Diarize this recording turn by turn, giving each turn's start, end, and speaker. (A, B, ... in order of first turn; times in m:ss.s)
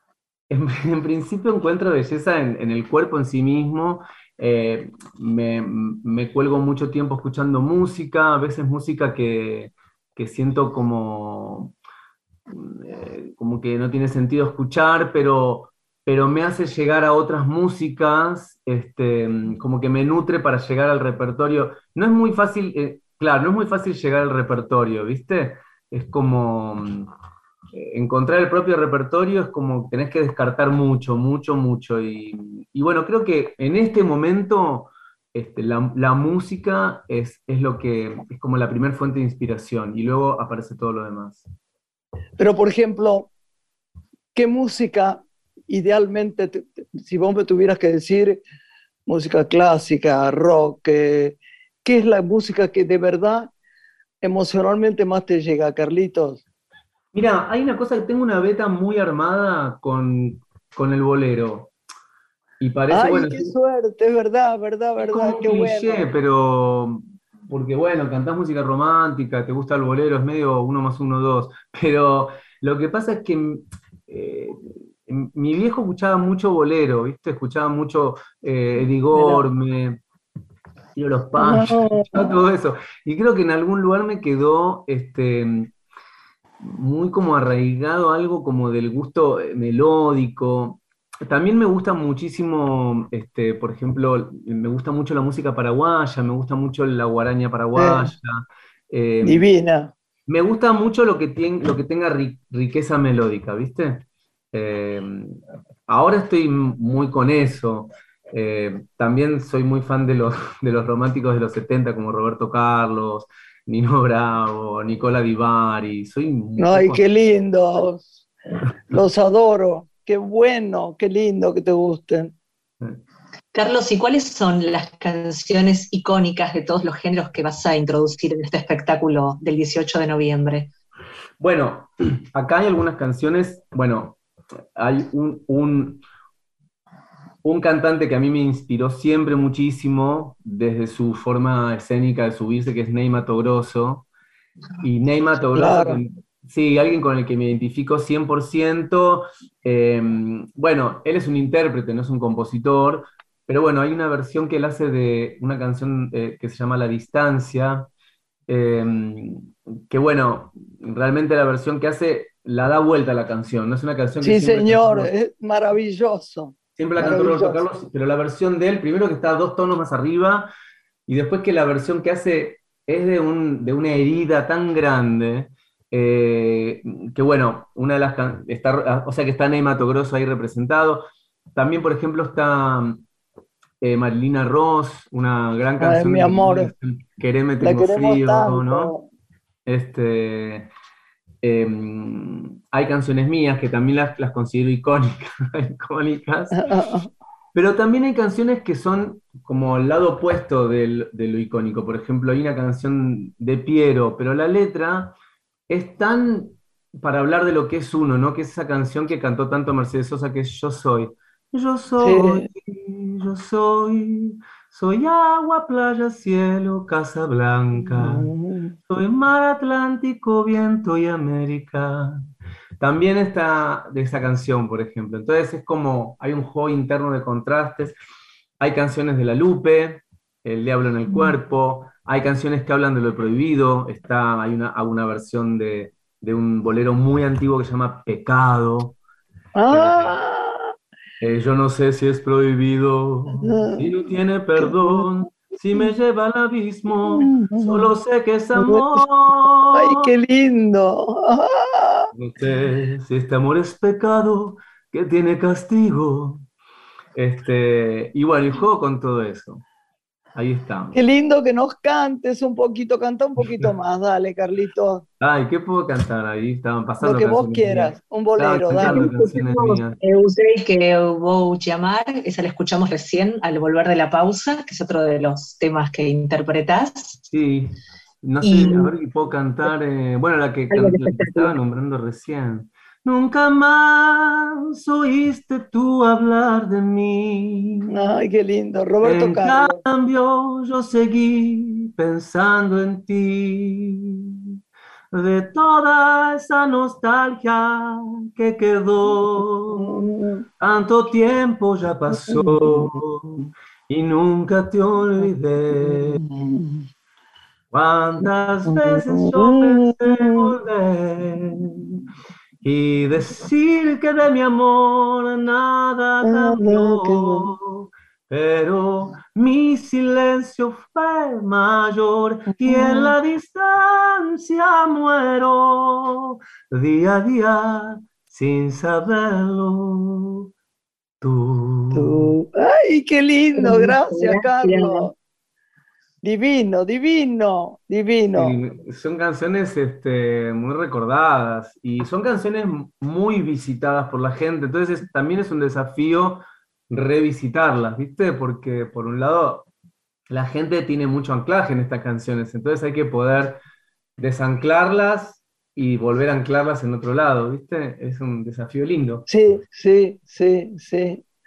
0:00.5-0:11.7 A
0:12.5-0:27.1 A
0:27.8-0:41.5 A
0:42.4-0:43.3 B
0:44.4-0:48.4 B
0:49.1-0:53.5 B
0:54.2-0:56.4 B
0:57.1-1:01.7 A
1:02.6-1:03.5 A
1:02.9-1:06.1 B
1:05.0-1:20.0 A
1:19.1-1:19.4 B
1:21.0-1:25.7 A
1:21.4-1:22.3 B
1:26.6-1:39.5 A
1:37.8-1:38.1 B
1:39.2-1:39.9 B
1:40.3-1:57.0 A
1:56.6-1:58.2 B
1:58.9-2:02.3 B
2:03.5-2:10.7 C
2:11.4-2:14.2 A
2:14.8-2:16.0 A
2:17.4-2:24.1 A
2:24.8-2:37.9 A
2:25.6-2:26.0 B
2:38.5-2:45.1 A
2:44.2-2:47.6 B
2:46.8-2:50.5 A
2:51.1-3:03.0 A
3:03.8-3:08.9 A
3:05.8-3:06.7 B
3:07.6-3:09.1 B
3:09.7-3:10.7 A
3:11.4-3:16.7 A
3:16.6-3:17.1 B
3:17.5-3:25.2 A
3:25.7-3:38.3 A
3:32.0-3:32.5 B
3:37.8-3:38.8 B
3:38.9-3:42.2 A
3:42.8-3:48.0 A
3:48.6-3:59.0 A
3:59.6-4:00.7 B
3:59.7-4:00.2 A
4:01.2-4:10.1 A
4:03.4-4:03.9 B
4:04.6-4:05.0 B
4:07.1-4:07.9 B
4:08.6-4:09.0 B
4:09.7-4:12.1 B
4:12.2-4:16.4 A
4:17.2-4:19.6 A
4:20.4-4:21.0 A
4:20.9-4:25.0 B
4:25.2-4:30.0 A
4:27.0-4:29.1 B
4:28.8-4:37.2 C
4:37.3-4:47.9 A
4:38.4-4:38.9 C
4:40.7-4:41.6 C
4:47.9-4:49.8 B
4:49.0-4:54.5 A
4:55.1-5:00.1 A
4:59.7-5:00.5 B
5:00.6-5:06.2 A
5:02.3-5:02.9 B
5:05.8-5:06.9 B
5:07.7-5:12.0 A
5:08.7-5:10.5 B
5:12.6-5:30.5 A
5:16.2-5:17.5 B
5:22.6-5:23.2 B
5:31.2-5:32.3 A
5:31.9-5:35.2 B
5:33.6-5:35.1 C
5:36.2-5:38.6 B
5:38.4-5:49.7 A
5:50.3-5:53.6 A
5:54.2-5:59.3 A
5:59.3-6:01.2 B